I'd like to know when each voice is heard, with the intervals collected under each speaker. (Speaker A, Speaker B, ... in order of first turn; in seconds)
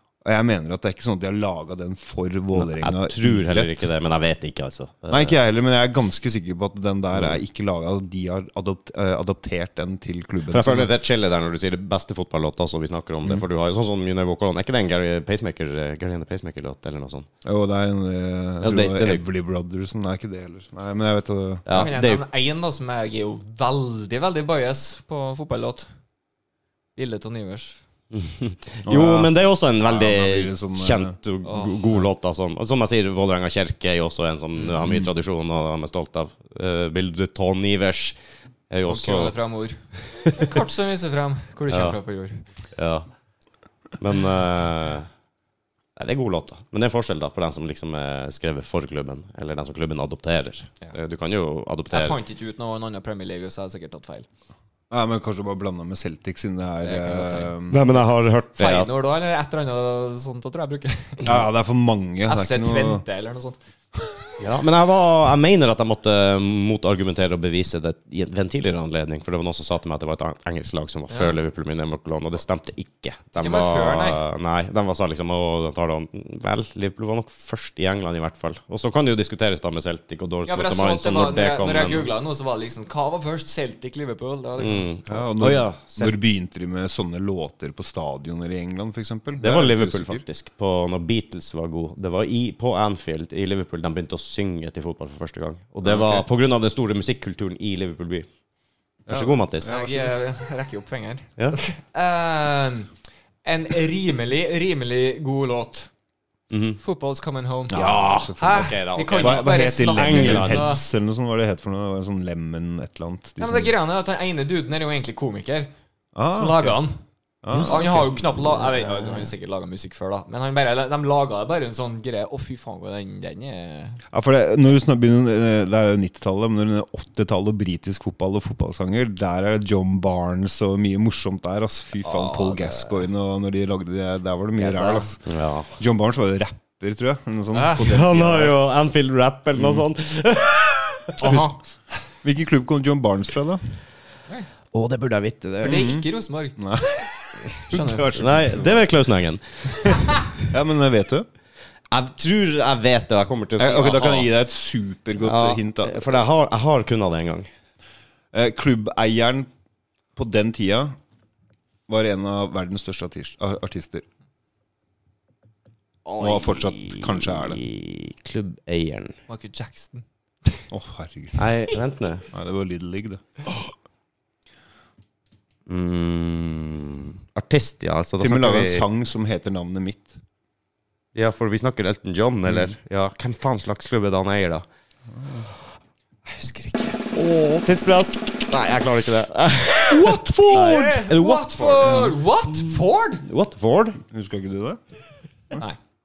Speaker A: 0.2-3.9, 5.1-10.9, 17.4-21.9, 28.9-29.3, 29.8-31.1, 34.7-35.1, 54.9-57.8, 61.2-63.0, 85.1-90.2, 95.8-96.2, 99.0-100.1, 107.7-113.7, 116.1-116.8, 117.4-119.2, 124.1-135.2, 135.8-138.6, 139.6-139.8, 141.2-141.5, 142.2-143.7, 145.6-146.1, 146.6-147.0, 147.6-148.9, 150.4-151.3, 153.6-156.0, 158.3-159.5, 160.2-160.9, 161.9-164.0, 166.2-167.6, 170.7-171.5, 172.3-173.2, 178.2-180.2, 182.5-182.7, 185.1-185.5, 189.9-191.1, 191.8-192.1, 194.1-194.8
Speaker B: 2.5-5.3, 7.1-7.4, 10.5-17.3, 18.6-19.2, 21.7-22.2, 28.1-38.1, 38.7-39.3, 40.2-40.5, 41.7-42.0, 42.8-43.1, 44.0-45.1, 46.0-52.2, 57.7-58.9, 64.4-82.1, 84.6-86.2, 89.4-98.3, 99.1-99.7, 106.5-106.8, 107.7-110.8, 117.5-118.2, 134.6-135.7, 137.8-141.3, 144.7-145.8, 148.1-150.5, 151.9-154.3, 155.2-157.5, 166.0-169.2, 171.4-172.2, 175.7-178.9, 181.1-184.6, 187.1-192.7, 193.2-194.0
Speaker C: 21.7-25.9, 26.9-27.8, 31.4-32.0, 38.9-42.4, 51.9-54.3, 56.8-57.5, 58.6-61.4, 62.2-64.3, 71.1-71.3, 73.4-74.2, 80.5-84.9, 99.6-102.9, 103.4-105.9, 106.8-110.8, 113.4-115.7, 116.3-117.0, 117.6-124.0, 132.0-133.1, 137.5-138.1, 141.2-141.6, 145.6-147.1, 147.7-148.1, 169.3-170.6, 186.3-187.0, 190.5-193.2